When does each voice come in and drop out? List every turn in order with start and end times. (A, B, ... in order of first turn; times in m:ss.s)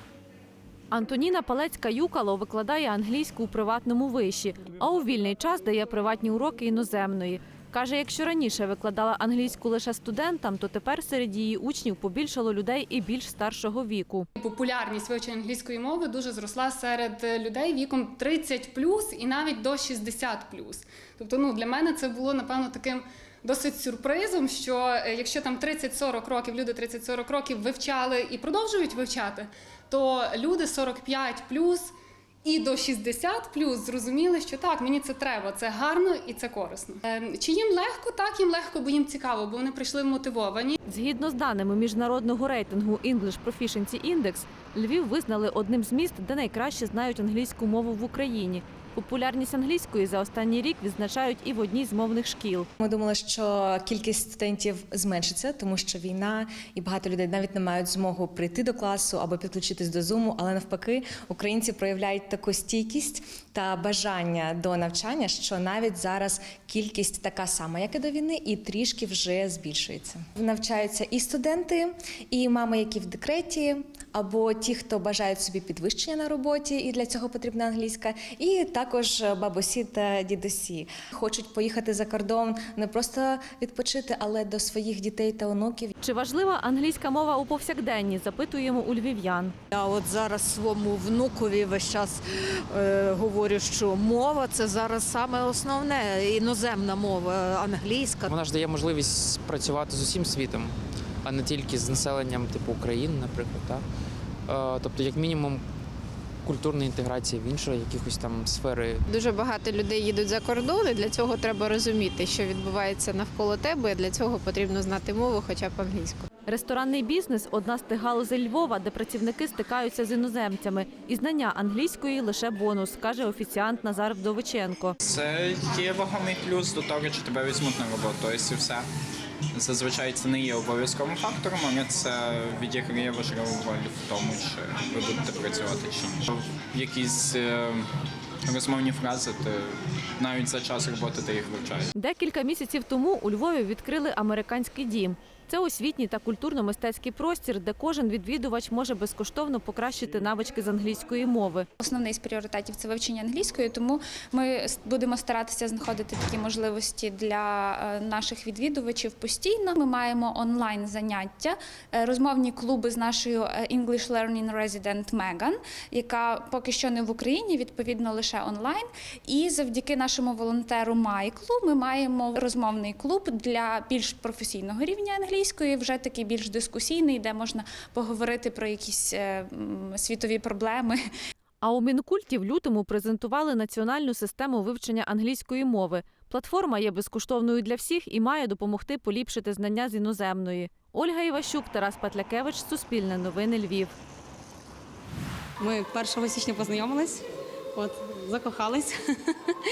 0:00.9-0:14.3 A
0:14.4-0:31.9 B
0:32.4-0:40.8 B
0:40.9-0:52.7 A
0:52.8-1:25.9 C
1:26.0-1:29.5 A
1:29.7-1:32.2 D
1:32.8-1:38.2 D
1:38.2-1:40.7 E
1:41.2-1:43.8 E
1:44.5-1:45.6 E
1:46.4-1:49.0 E
1:49.0-1:56.3 F
1:56.5-2:05.0 A
2:05.0-2:08.8 G
2:09.5-2:17.9 G
2:18.5-2:21.9 G
2:22.0-2:31.7 A
2:31.8-3:01.0 H
3:01.6-3:14.0 A
3:15.6-3:17.2 I
3:17.8-3:18.9 I